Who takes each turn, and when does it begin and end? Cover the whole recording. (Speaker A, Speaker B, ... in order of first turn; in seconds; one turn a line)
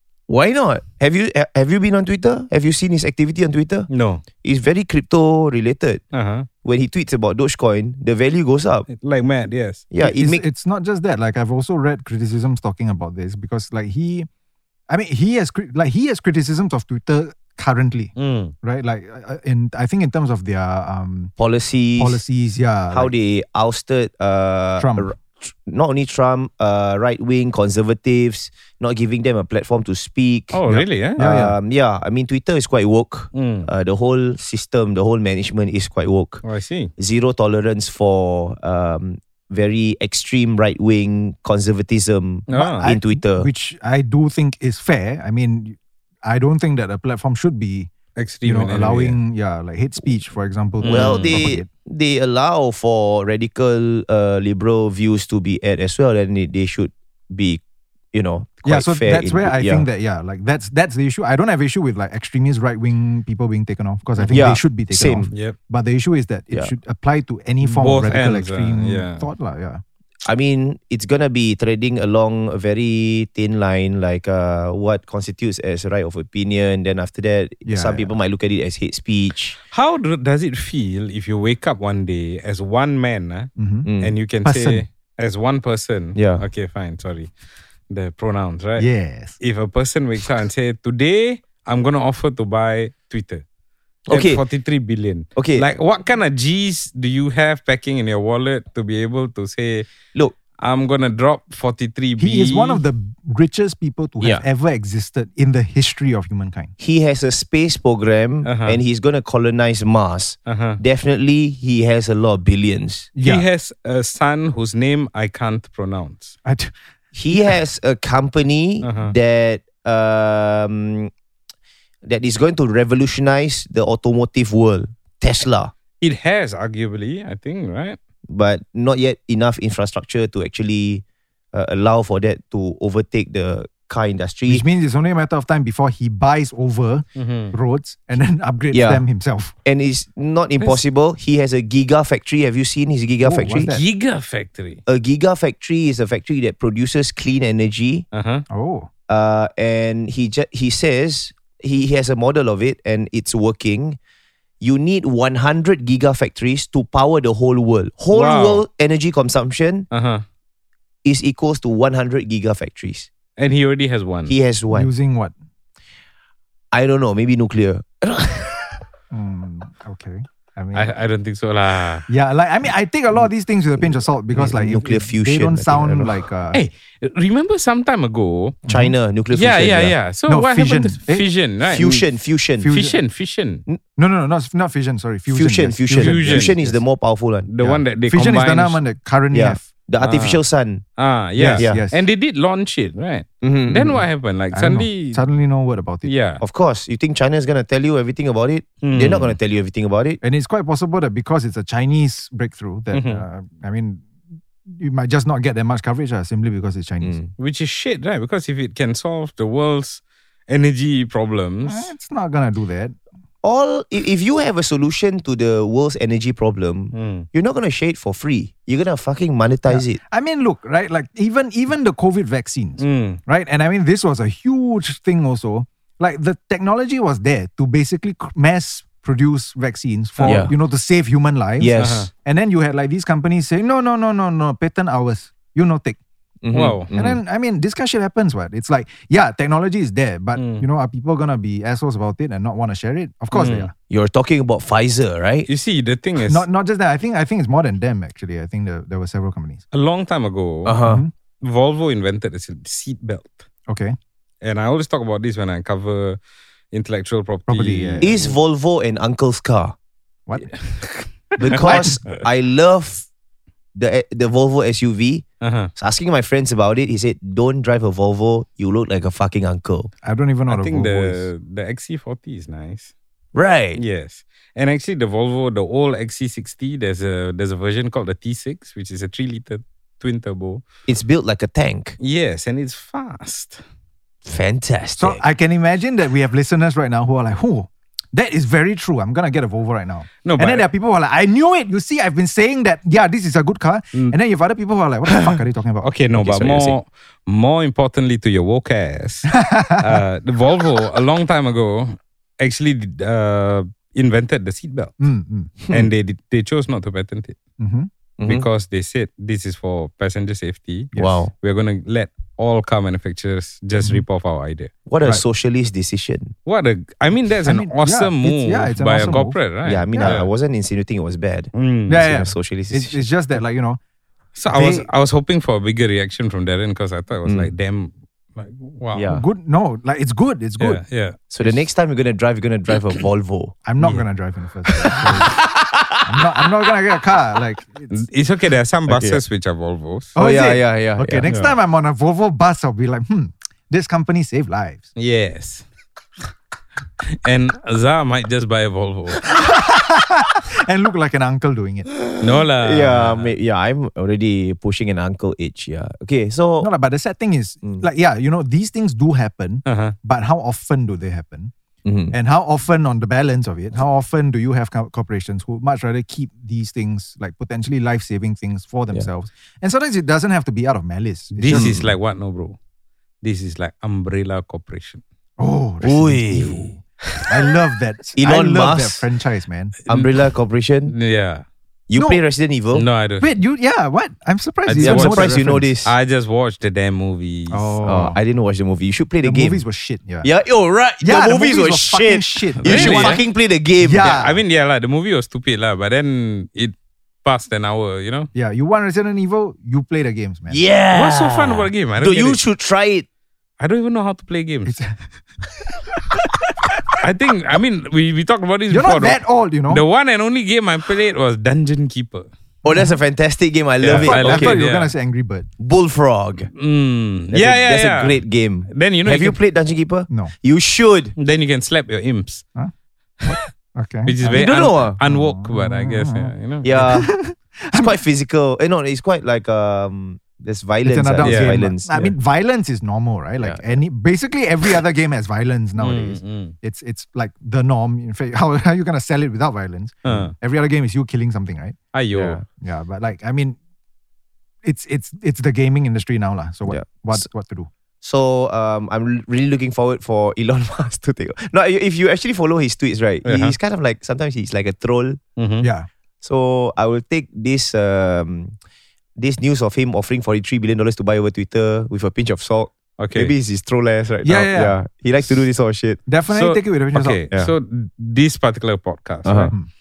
Speaker A: 0.3-3.9
Speaker B: 3.9-4.2
Speaker A: 4.4-6.0
Speaker B: 6.1-6.5
Speaker A: 6.6-8.9
Speaker B: 8.9-9.8
Speaker A: 9.9-10.4
Speaker C: 10.0-14.3
Speaker C: 14.9-21.3
Speaker B: 18.2-18.5
Speaker A: 21.4-22.2
Speaker C: 22.0-23.1
Speaker A: 22.9-30.6
Speaker C: 24.8-25.1
Speaker B: 30.5-31.2
Speaker C: 30.7-31.6
Speaker A: 31.2-36.4
Speaker B: 33.3-33.7
Speaker B: 36.4-36.9
Speaker A: 37.0-43.5
Speaker B: 42.5-42.9
Speaker C: 42.5-47.9
Speaker B: 48.2-49.2
Speaker C: 48.5-51.7
Speaker B: 50.8-51.4
Speaker A: 50.9-57.6
Speaker A: 58.1-59.9
Speaker C: 58.6-69.8
Speaker A: 64.3-65.3
Speaker B: 67.6-69.3
Speaker A: 70.2-79.6
Speaker C: 77.7-78.1
Speaker B: 79.7-83.5
Speaker C: 83.6-83.9
Speaker A: 83.9-84.2
Speaker B: 84.0-87.3
Speaker C: 84.4-84.8
Speaker A: 86.2-86.4
Speaker B: 87.9-88.9
Speaker C: 88.8-89.4
Speaker B: 89.4-93.4
Speaker A: 94.1-94.4
Speaker B: 94.1-99.9
Speaker A: 95.4-95.7
Speaker B: 100.6-102.8
Speaker C: 102.2-106.7
Speaker A: 106.8-113.1
Speaker B: 108.4-108.8
Speaker B: 110.5-110.8
Speaker C: 113.2-113.5
Speaker B: 113.2-116.3
Speaker C: 116.5-116.7
Speaker A: 117.1-121.1
Speaker B: 118.8-119.1
Speaker A: 122.0-125.7
Speaker B: 126.0-128.0
Speaker A: 128.3-134.7
Speaker C: 134.5-139.6
Speaker B: 137.2-137.6
Speaker A: 138.7-139.0
Speaker A: 139.7-143.8
Speaker C: 143.2-143.8
Speaker B: 143.6-144.8
Speaker A: 144.9-148.1
Speaker B: 148.1-148.4
Speaker C: 148.5-148.9
Speaker A: 149.1-154.0
Speaker A: 154.6-159.9
Speaker B: 158.1-158.6
Speaker B: 159.9-160.2
Speaker A: 161.1-163.1
Speaker B: 163.4-164.3
Speaker A: 164.3-164.9
Speaker C: 164.7-165.3
Speaker A: 166.7-168.8
Speaker C: 169.1-170.9
Speaker B: 170.7-172.1
Speaker C: 172.1-176.6
Speaker A: 173.8-176.2
Speaker B: 176.5-178.6
Speaker C: 178.7-178.9
Speaker A: 178.7-179.9
Speaker B: 179.3-182.1
Speaker C: 180.3-181.2
Speaker A: 181.7-182.7
Speaker C: 182.6-183.0
Speaker B: 182.7-183.6
Speaker C: 184.0-186.8
Speaker A: 185.3-187.5
Speaker B: 186.0-186.6
Speaker B: 187.5-188.8
Speaker C: 187.6-189.7
Speaker A: 189.3-190.8
Speaker B: 190.0-190.4
Speaker B: 191.0-195.2
Speaker C: 191.4-192.0
Speaker A: 193.4-194.0
Speaker C: 194.5-196.1
Speaker B: 196.0-196.4
Speaker A: 196.4-200.2
Speaker B: 198.8-199.4
Speaker C: 200.2-204.1
Speaker B: 202.9-203.2
Speaker C: 204.7-207.2
Speaker A: 207.0-207.3
Speaker B: 207.4-211.9
Speaker C: 211.7-213.0
Speaker A: 213.4-220.0
Speaker B: 216.9-217.3
Speaker C: 219.7-236.0
Speaker B: 222.8-223.2
Speaker B: 230.2-230.5
Speaker A: 230.2-230.5
Speaker A: 231.6-232.1
Speaker B: 231.8-232.1
Speaker A: 236.4-237.2
Speaker B: 236.5-236.9
Speaker C: 236.9-243.7
Speaker B: 240.3-240.7
Speaker B: 243.3-243.7
Speaker A: 243.9-245.5
Speaker B: 245.5-246.5
Speaker C: 246.2-249.7
Speaker B: 249.7-250.8
Speaker A: 250.7-251.0
Speaker C: 250.8-251.1
Speaker B: 251.4-253.4
Speaker C: 253.7-254.0
Speaker B: 254.4-256.2
Speaker B: 256.7-258.3
Speaker C: 257.5-258.3
Speaker A: 258.0-259.8
Speaker C: 260.3-260.5
Speaker B: 260.5-261.9
Speaker A: 261.4-263.1
Speaker C: 261.4-262.0
Speaker A: 263.8-265.2
Speaker B: 265.4-265.7
Speaker A: 265.8-269.9
Speaker C: 270.0-271.3
Speaker B: 270.5-272.9
Speaker A: 273.4-273.8
Speaker B: 273.8-280.6
Speaker A: 280.9-282.0
Speaker B: 282.0-283.6
Speaker A: 284.2-285.2
Speaker C: 285.0-295.9
Speaker B: 290.2-290.7
Speaker B: 295.1-304.9
Speaker A: 296.2-296.8
Speaker C: 299.3-300.0
Speaker C: 305.0-305.6
Speaker B: 305.7-307.4
Speaker C: 307.6-307.9
Speaker A: 308.2-308.5
Speaker B: 308.2-314.7
Speaker C: 310.9-311.2
Speaker A: 311.0-311.3
Speaker A: 314.9-316.3
Speaker B: 316.5-320.3
Speaker C: 317.4-320.2
Speaker A: 319.6-321.5
Speaker B: 321.5-322.1
Speaker C: 321.9-323.8
Speaker A: 322.1-323.1
Speaker B: 324.4-329.1
Speaker C: 324.5-324.9
Speaker A: 327.3-327.5
Speaker A: 328.9-329.2
Speaker C: 329.1-330.8
Speaker B: 330.6-331.1
Speaker A: 331.3-333.6
Speaker C: 333.6-335.4
Speaker B: 333.8-334.1
Speaker A: 334.8-336.5
Speaker C: 336.0-338.0
Speaker B: 337.9-340.1
Speaker A: 338.9-339.2
Speaker C: 340.1-344.9
Speaker A: 340.2-341.3
Speaker B: 341.3-341.6
Speaker B: 345.0-345.7
Speaker B: 347.2-349.2
Speaker C: 349.2-351.9
Speaker B: 352.2-353.3
Speaker A: 352.5-356.7
Speaker C: 356.6-361.5
Speaker B: 359.7-359.9
Speaker A: 361.9-362.2
Speaker C: 362.1-371.8
Speaker B: 371.3-372.6
Speaker A: 371.5-371.9
Speaker B: 373.2-375.0
Speaker C: 375.4-379.8
Speaker A: 375.8-376.8
Speaker A: 378.2-379.1
Speaker A: 379.9-380.9
Speaker B: 380.9-381.4
Speaker A: 381.9-382.9
Speaker C: 381.9-382.2
Speaker B: 382.7-383.3
Speaker C: 383.2-385.7
Speaker B: 384.7-387.8
Speaker A: 384.8-385.9
Speaker C: 387.5-388.2
Speaker A: 387.9-389.6
Speaker C: 389.2-390.3
Speaker A: 390.2-394.2
Speaker C: 391.0-393.2
Speaker B: 392.6-393.2
Speaker C: 393.8-394.4
Speaker B: 394.0-398.3
Speaker C: 398.4-400.6
Speaker A: 400.5-403.1
Speaker B: 400.9-402.4
Speaker B: 403.6-404.7
Speaker C: 404.6-405.1
Speaker B: 407.0-412.3
Speaker C: 408.7-409.9
Speaker A: 412.6-414.6
Speaker B: 413.8-414.9
Speaker C: 413.8-415.5
Speaker A: 415.6-416.5
Speaker B: 416.6-419.4
Speaker A: 417.3-421.1
Speaker B: 421.2-422.5
Speaker C: 423.3-428.0
Speaker B: 424.1-426.7
Speaker A: 424.2-425.0
Speaker A: 426.6-427.1
Speaker A: 427.7-432.1
Speaker C: 430.8-441.8
Speaker B: 431.2-431.6
Speaker B: 435.8-436.6
Speaker B: 440.1-440.3
Speaker B: 441.9-442.4
Speaker A: 442.1-442.4
Speaker C: 442.6-443.6
Speaker C: 444.6-447.7
Speaker A: 446.7-447.3
Speaker A: 448.0-455.2
Speaker B: 453.2-453.6
Speaker B: 455.4-455.7
Speaker C: 455.6-455.9
Speaker A: 456.2-458.6
Speaker A: 459.2-466.0
Speaker B: 463.0-463.3
Speaker C: 464.2-464.8
Speaker C: 466.1-467.2
Speaker B: 466.3-469.6
Speaker A: 469.2-469.5